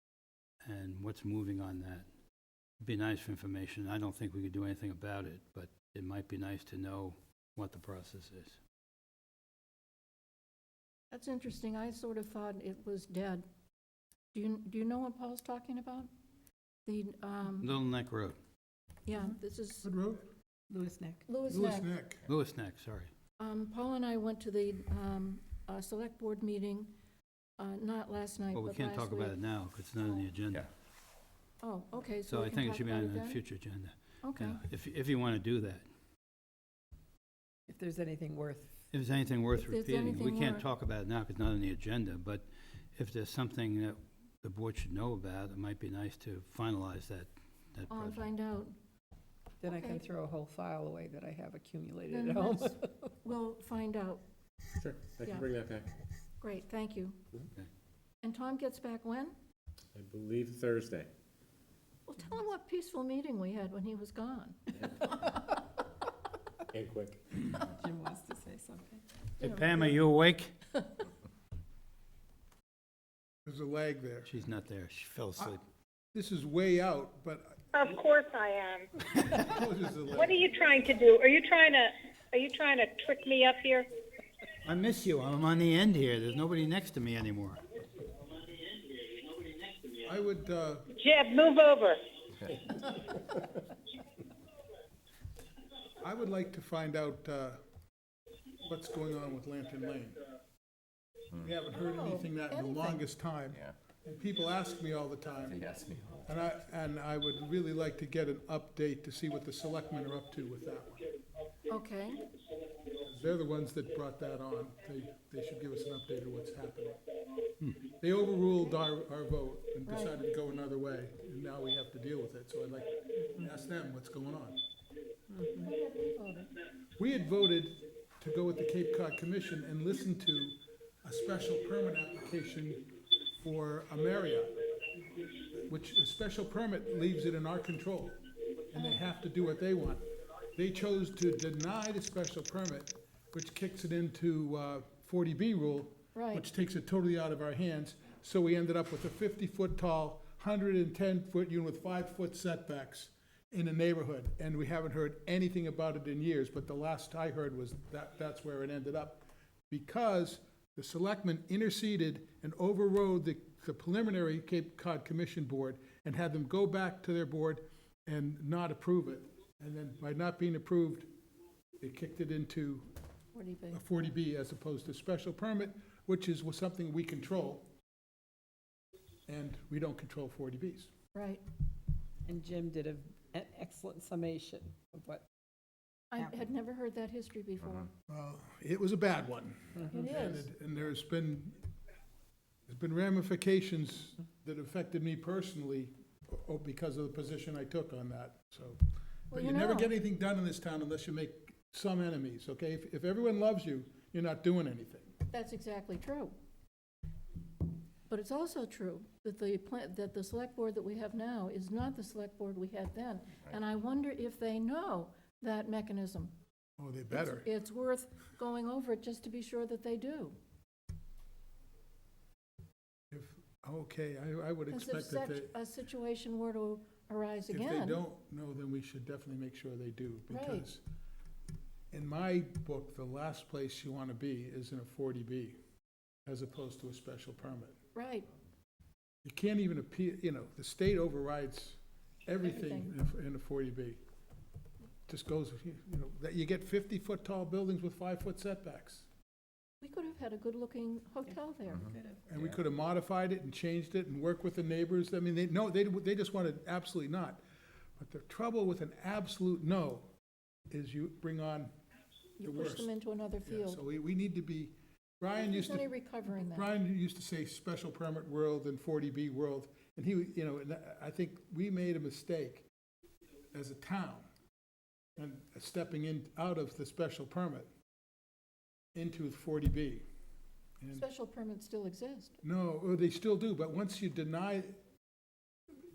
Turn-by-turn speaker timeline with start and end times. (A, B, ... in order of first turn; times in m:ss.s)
0:00.6-0:02.1 A
0:02.8-0:08.6 A
0:11.1-0:13.4 B
0:14.3-0:16.1 B
0:16.8-0:17.7 B
0:17.6-0:18.4 A
0:19.0-0:19.9 B
0:19.8-0:20.2 C
0:20.7-0:21.2 D
0:21.3-0:21.9 B
0:21.5-0:22.2 C
0:22.2-0:23.1 A
0:23.4-0:26.9 B
0:27.6-0:29.3 B
0:28.5-0:30.7 A
0:31.6-0:33.4 B
0:32.3-0:35.8 A
0:34.2-0:34.6 B
0:37.7-0:38.7 D
0:38.9-0:48.2 A
0:39.5-0:40.6 B
0:47.9-0:48.8 B
0:49.6-0:53.1 D
0:49.6-0:50.0 B
0:52.1-0:54.2 B
0:54.7-0:55.9 E
0:55.2-0:55.5 B
0:56.4-0:57.2 B
0:58.2-0:59.3 B
0:59.9-1:01.1 E
1:02.1-1:05.4 B
1:04.8-1:05.1 E
1:06.7-1:07.4 E
1:07.5-1:09.0 D
1:09.4-1:10.5 A
1:09.4-1:09.9 B
1:13.4-1:14.3 C
1:14.2-1:15.6 A
1:16.1-1:17.6 C
1:17.7-1:18.9 F
1:19.3-1:20.4 C
1:20.1-1:23.8 F
1:24.6-1:27.6 A
1:30.0-1:30.9 C
1:31.0-1:32.0 F
1:32.4-1:33.4 E
1:36.0-1:37.6 C
1:38.6-1:40.2 C
1:41.4-1:45.7 C
1:41.8-1:43.0 B
1:45.5-1:46.2 E
1:46.2-1:51.1 C
1:51.7-1:52.2 B
1:53.0-1:57.0 C
1:57.8-2:04.6 C
1:59.8-2:00.2 B
2:03.2-2:03.5 D
2:05.3-2:05.7 D
2:05.6-2:06.5 B
2:07.0-2:12.9 C
2:13.4-2:14.6 C
2:15.7-2:18.2 C
2:18.7-2:20.0 C
2:20.6-2:51.1 C
2:26.1-2:26.4 B
2:51.8-2:52.9 C
2:53.3-2:53.8 B
2:53.7-2:57.7 C
2:59.3-3:00.9 C
3:01.1-3:01.4 B
3:02.2-3:05.2 D
3:06.1-3:07.9 B
3:06.2-3:06.5 D
3:08.1-3:11.6 C
3:09.9-3:10.4 B
3:12.7-3:18.8 C
3:19.3-3:25.1 C
3:19.3-3:19.9 B
3:25.3-3:26.3 B
3:28.1-3:36.3 B
3:36.8-3:37.4 C
3:37.1-3:40.4 B
3:43.1-3:45.5 C
3:44.7-3:48.0 B
3:47.5-3:50.8 C
3:50.3-3:50.6 B
3:51.9-3:55.6 C
3:56.2-3:57.8 C
3:57.9-3:58.3 B
3:59.2-4:04.0 C
4:02.4-4:02.9 B
4:05.1-4:09.1 C
4:09.8-4:11.9 B
4:11.3-4:12.2 D
4:12.3-4:17.4 C
4:18.0-4:20.1 C
4:20.7-4:21.7 C
4:22.4-4:23.8 B
4:22.4-4:22.9 C
4:23.4-4:32.7 C
4:25.3-4:26.7 B
4:33.5-4:34.3 C
4:35.2-4:37.7 C
4:38.9-4:40.0 C
4:40.9-4:42.4 B
4:42.4-4:44.8 C